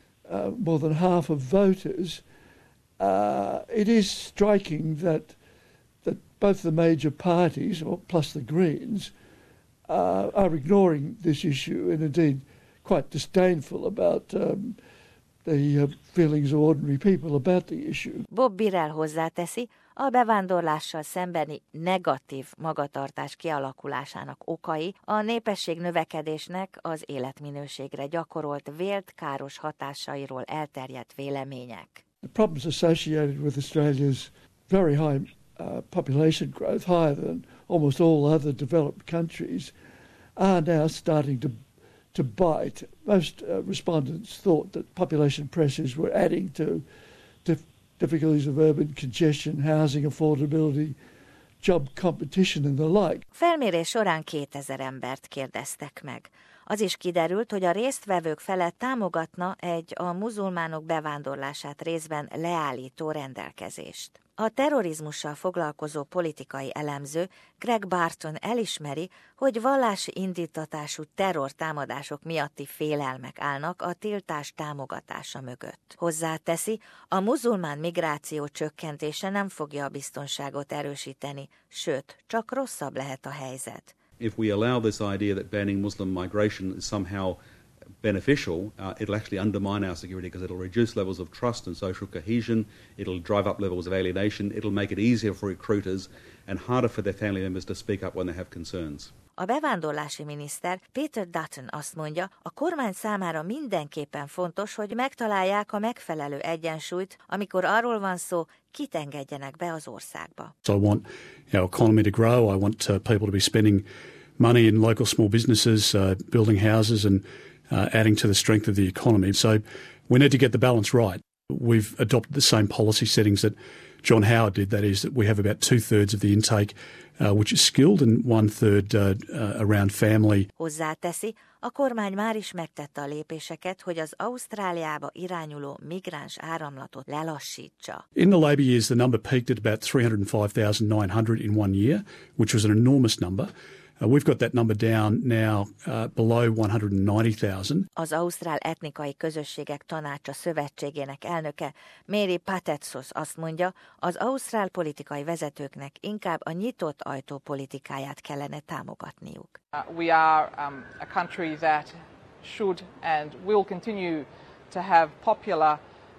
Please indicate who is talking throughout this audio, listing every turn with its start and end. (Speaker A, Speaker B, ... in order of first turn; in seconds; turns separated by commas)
Speaker A: 0.3-2.2, Speaker A: 3.0-5.4, Speaker A: 6.0-9.1, Speaker A: 9.9-14.8, Speaker A: 15.4-18.2, Speaker B: 18.3-32.0, Speaker A: 32.2-39.7, Speaker A: 40.4-41.5, Speaker A: 42.1-46.8, Speaker A: 47.4-51.0, Speaker A: 51.6-53.2, Speaker B: 53.3-83.9, Speaker C: 84.2-87.4, Speaker C: 88.0-99.1, Speaker B: 99.4-110.5, Speaker D: 110.7-113.8, Speaker D: 114.4-130.5, Speaker B: 130.6-138.1, Speaker D: 138.2-147.9, Speaker B: 148.0-159.6, Speaker E: 159.8-165.8